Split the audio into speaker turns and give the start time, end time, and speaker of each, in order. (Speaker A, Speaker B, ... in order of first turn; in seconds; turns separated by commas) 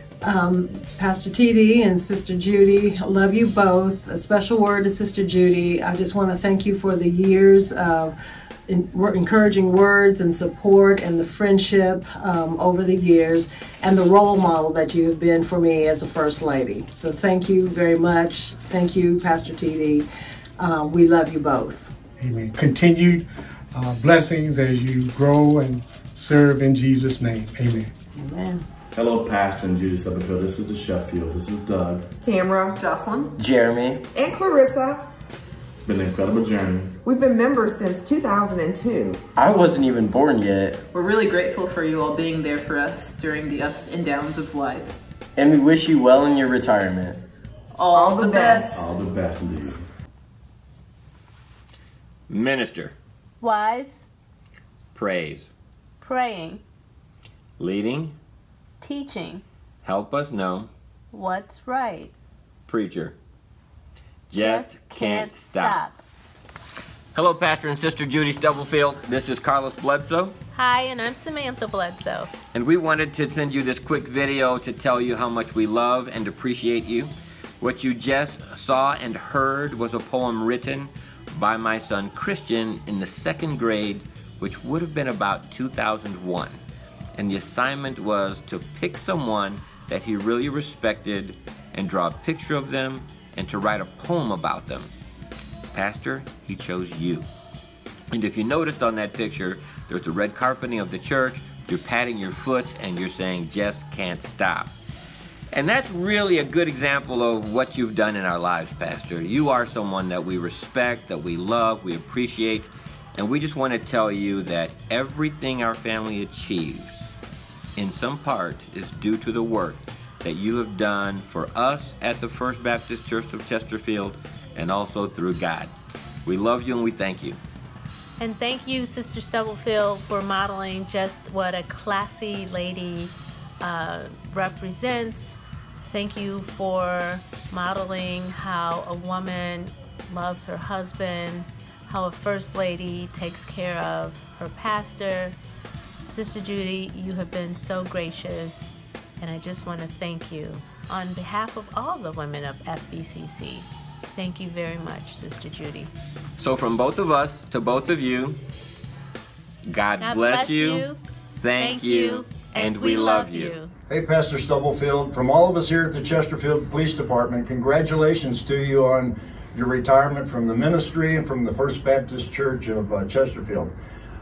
Speaker A: 0.2-8.2, Speaker A: 8.7-21.9, Speaker B: 22.2-27.9, Speaker A: 28.2-28.6, Speaker C: 28.9-32.1, Speaker D: 32.2-33.2, Speaker E: 32.8-33.1, Speaker F: 33.5-34.0, Speaker D: 34.0-35.0, Speaker C: 35.8-36.9, Speaker D: 37.0-39.1, Speaker F: 39.5-40.8, Speaker E: 40.9-45.0, Speaker F: 45.5-46.7, Speaker E: 47.8-48.7, Speaker D: 47.9-48.6, Speaker C: 48.7-49.8, Speaker G: 52.3-52.9, Speaker H: 53.4-54.1, Speaker G: 54.9-55.5, Speaker H: 56.0-56.6, Speaker G: 57.6-58.1, Speaker H: 58.8-59.4, Speaker G: 59.8-60.7, Speaker H: 61.1-62.1, Speaker G: 62.7-63.1, Speaker G: 64.3-65.8, Speaker H: 64.4-66.0, Speaker G: 67.1-70.3, Speaker H: 70.5-72.3, Speaker G: 72.5-86.6, Speaker G: 87.2-94.9, Speaker G: 95.7-97.3, Speaker G: 98.1-104.7, Speaker G: 105.5-117.2, Speaker G: 117.8-125.7, Speaker G: 126.3-127.4, Speaker H: 128.2-133.1, Speaker H: 133.6-135.4, Speaker H: 135.9-145.3, Speaker H: 146.1-148.7, Speaker H: 149.2-155.9, Speaker G: 156.4-158.4, Speaker G: 159.7-160.9, Speaker H: 160.0-161.0, Speaker G: 161.4-163.6, Speaker H: 161.6-163.7, Speaker I: 163.9-173.7